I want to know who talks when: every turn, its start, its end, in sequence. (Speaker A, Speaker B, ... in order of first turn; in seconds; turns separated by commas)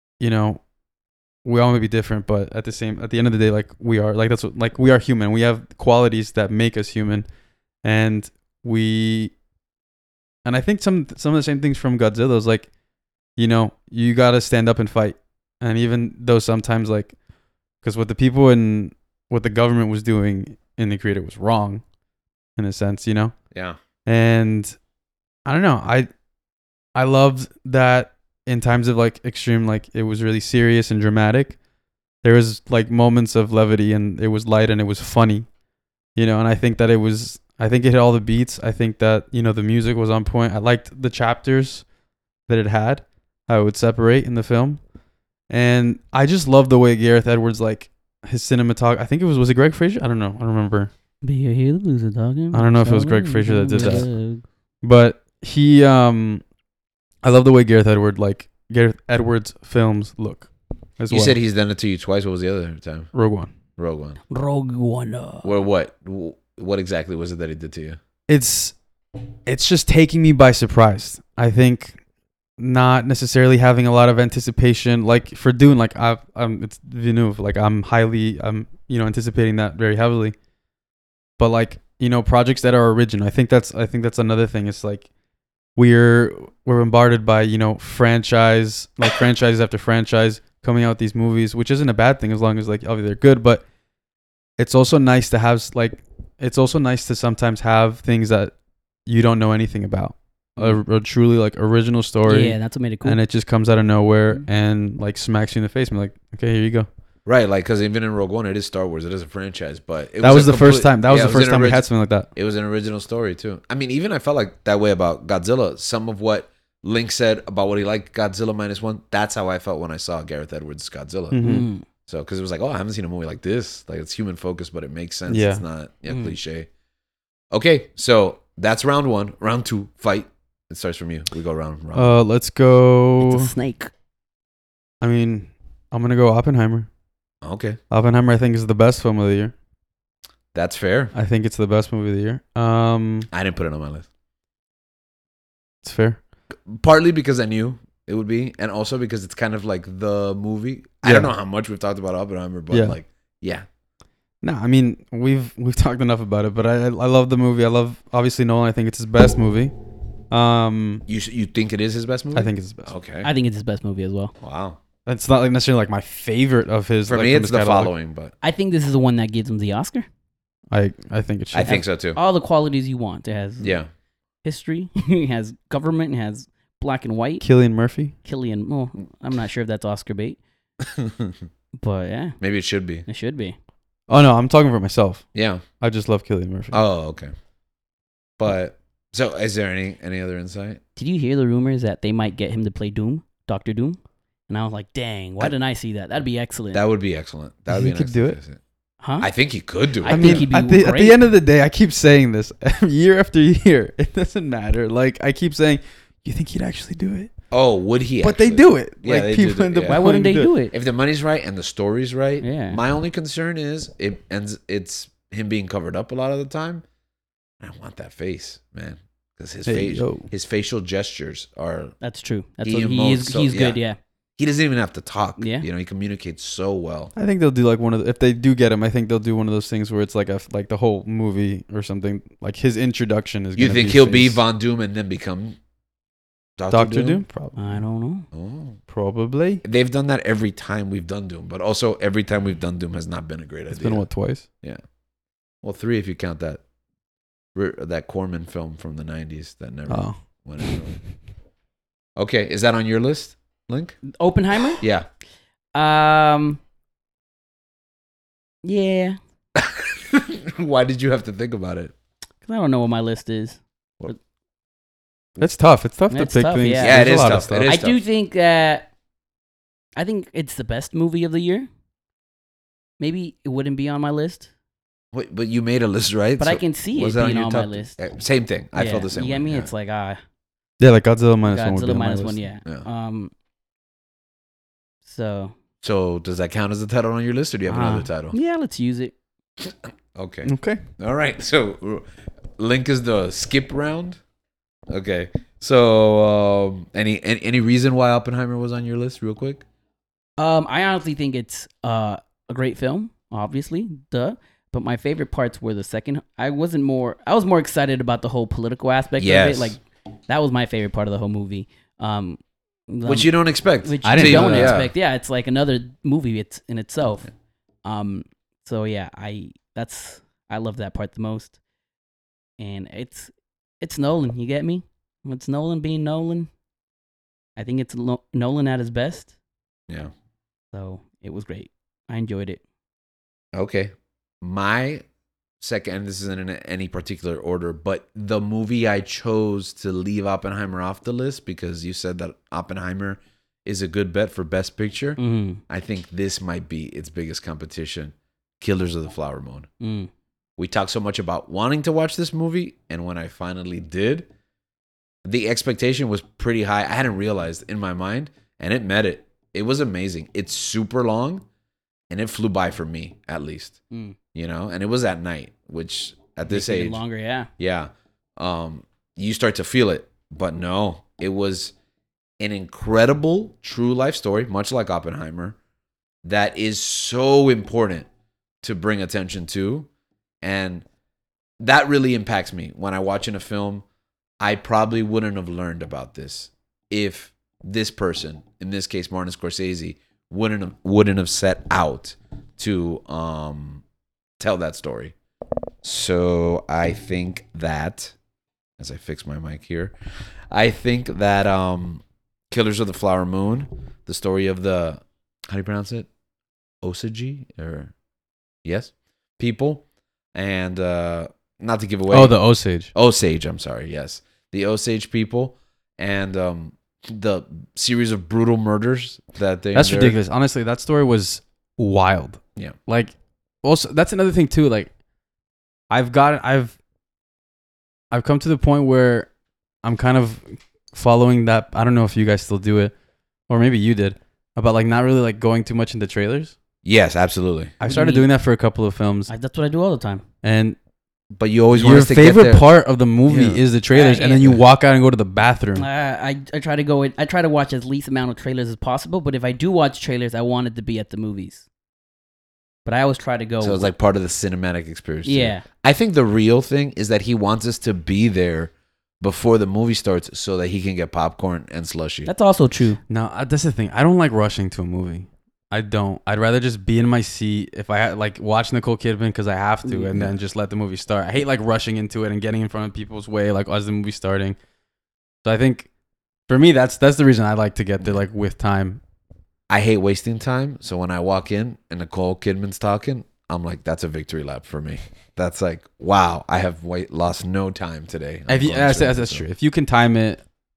Speaker A: 0.2-0.6, Speaker A: 1.4-7.3, Speaker A: 7.8-9.3, Speaker A: 10.4-12.7, Speaker A: 13.4-17.1, Speaker A: 17.8-21.8, Speaker A: 22.6-23.4, Speaker A: 24.1-24.8, Speaker A: 25.5-26.1, Speaker A: 26.9-31.6, Speaker A: 32.2-35.5, Speaker A: 36.1-41.9, Speaker A: 42.5-44.8, Speaker A: 45.5-50.9, Speaker B: 51.2-54.4, Speaker A: 52.5-54.1, Speaker C: 53.8-54.0, Speaker A: 54.8-56.4, Speaker A: 57.2-61.4, Speaker C: 61.1-63.1, Speaker A: 63.1-63.5, Speaker C: 63.8-64.2, Speaker B: 64.3-65.5, Speaker C: 65.4-68.0, Speaker A: 68.3-68.8, Speaker A: 69.5-72.0, Speaker A: 72.6-80.3, Speaker A: 81.4-85.1, Speaker A: 85.8-93.6, Speaker A: 94.6-98.5, Speaker A: 99.0-106.9, Speaker B: 102.2-103.2, Speaker C: 107.2-121.5, Speaker A: 110.2-112.3, Speaker A: 121.3-121.7, Speaker B: 121.4-121.8, Speaker C: 122.1-126.7, Speaker A: 125.3-125.6, Speaker B: 126.1-126.3, Speaker C: 127.5-132.1, Speaker A: 131.9-133.5, Speaker B: 133.2-133.9, Speaker A: 135.0-136.9, Speaker C: 137.4-137.8, Speaker A: 137.9-139.5, Speaker C: 140.5-141.1, Speaker A: 141.1-143.3, Speaker C: 143.3-144.1, Speaker A: 145.8-146.2, Speaker C: 146.7-153.7, Speaker A: 151.0-151.3, Speaker A: 152.7-153.0, Speaker A: 154.4-159.7, Speaker A: 160.3-161.0, Speaker C: 161.1-163.3, Speaker A: 162.3-162.9, Speaker B: 163.2-164.3, Speaker C: 164.4-164.8, Speaker A: 165.1-167.9, Speaker C: 167.1-168.3, Speaker B: 168.4-170.1, Speaker A: 170.7-171.8, Speaker C: 171.5-172.2, Speaker B: 171.7-173.8, Speaker C: 173.6-173.9, Speaker B: 174.4-177.4, Speaker A: 177.4-178.1, Speaker B: 178.2-180.4, Speaker C: 180.8-181.5, Speaker B: 181.8-182.4, Speaker C: 182.4-183.0, Speaker B: 183.1-183.6, Speaker A: 184.1-185.2, Speaker C: 185.3-185.6, Speaker A: 185.8-186.8, Speaker C: 186.7-187.3, Speaker C: 188.4-190.8, Speaker B: 191.0-194.0, Speaker B: 194.5-196.8, Speaker C: 196.7-198.6, Speaker A: 197.7-198.4, Speaker B: 199.0-199.3, Speaker C: 199.2-200.5, Speaker B: 200.0-201.2, Speaker A: 200.1-207.3, Speaker C: 207.5-210.1, Speaker A: 208.2-210.5, Speaker B: 209.9-210.7, Speaker C: 210.7-216.8, Speaker B: 212.4-212.8, Speaker C: 217.6-221.9, Speaker A: 219.7-220.3, Speaker B: 222.0-224.0, Speaker C: 222.6-223.8, Speaker C: 224.4-227.1, Speaker B: 225.4-225.7, Speaker A: 227.2-234.4, Speaker C: 233.6-235.6, Speaker C: 236.6-237.2, Speaker A: 236.7-237.8, Speaker B: 237.6-238.2, Speaker C: 238.3-238.8, Speaker A: 238.9-239.6, Speaker C: 239.6-244.1, Speaker A: 243.7-244.5, Speaker C: 245.6-246.6, Speaker C: 247.5-251.0, Speaker A: 249.9-250.2, Speaker C: 252.2-254.0, Speaker B: 254.1-254.8, Speaker C: 254.8-255.1, Speaker B: 255.8-256.6, Speaker B: 258.6-259.2, Speaker C: 259.5-261.9, Speaker B: 262.5-264.1, Speaker A: 265.4-267.7, Speaker B: 266.1-268.9, Speaker C: 266.8-268.0, Speaker B: 270.0-271.7, Speaker B: 273.0-274.5, Speaker C: 275.1-279.7, Speaker B: 276.4-278.0, Speaker B: 278.8-280.2, Speaker A: 280.8-282.4, Speaker B: 281.5-283.3, Speaker B: 285.0-285.5, Speaker C: 285.8-288.4, Speaker B: 287.7-289.1, Speaker C: 289.6-292.0, Speaker A: 290.4-290.8, Speaker C: 292.6-294.2, Speaker C: 294.9-299.6, Speaker B: 300.4-313.3, Speaker C: 309.2-309.8, Speaker C: 313.1-314.9, Speaker B: 313.8-317.3, Speaker A: 314.0-314.8, Speaker B: 317.8-321.6, Speaker B: 322.6-326.5, Speaker B: 327.6-329.3, Speaker B: 330.7-332.6, Speaker C: 333.5-335.0, Speaker C: 335.6-349.7, Speaker B: 345.2-345.6, Speaker B: 349.8-350.1, Speaker C: 350.6-354.3, Speaker C: 355.2-361.4, Speaker C: 362.1-363.8, Speaker B: 363.9-364.2, Speaker C: 364.3-367.0, Speaker B: 366.5-367.5, Speaker C: 367.6-371.7, Speaker C: 372.4-375.6, Speaker C: 376.2-378.1, Speaker C: 378.6-379.9, Speaker C: 380.4-380.8, Speaker C: 381.6-383.8, Speaker C: 384.4-393.8, Speaker C: 394.4-395.1, Speaker C: 395.8-398.1, Speaker C: 398.8-399.9, Speaker C: 400.5-406.1, Speaker C: 406.8-407.9, Speaker C: 408.6-412.4, Speaker A: 412.1-412.9, Speaker C: 412.9-420.2, Speaker A: 419.7-424.9, Speaker A: 425.9-426.8, Speaker A: 428.1-429.3, Speaker A: 429.8-432.9, Speaker A: 433.5-436.5, Speaker C: 436.8-437.8, Speaker A: 437.8-439.3, Speaker B: 437.9-438.3, Speaker B: 439.3-440.2, Speaker A: 440.4-440.8, Speaker C: 441.3-442.7, Speaker A: 441.7-445.9, Speaker C: 443.3-443.6, Speaker B: 443.9-444.5, Speaker B: 445.8-451.7, Speaker B: 452.9-453.9, Speaker C: 453.6-462.3, Speaker B: 455.2-455.7, Speaker B: 462.2-463.0, Speaker A: 463.1-474.6, Speaker A: 475.4-475.9, Speaker A: 476.5-479.0, Speaker C: 479.7-489.4, Speaker A: 488.5-490.4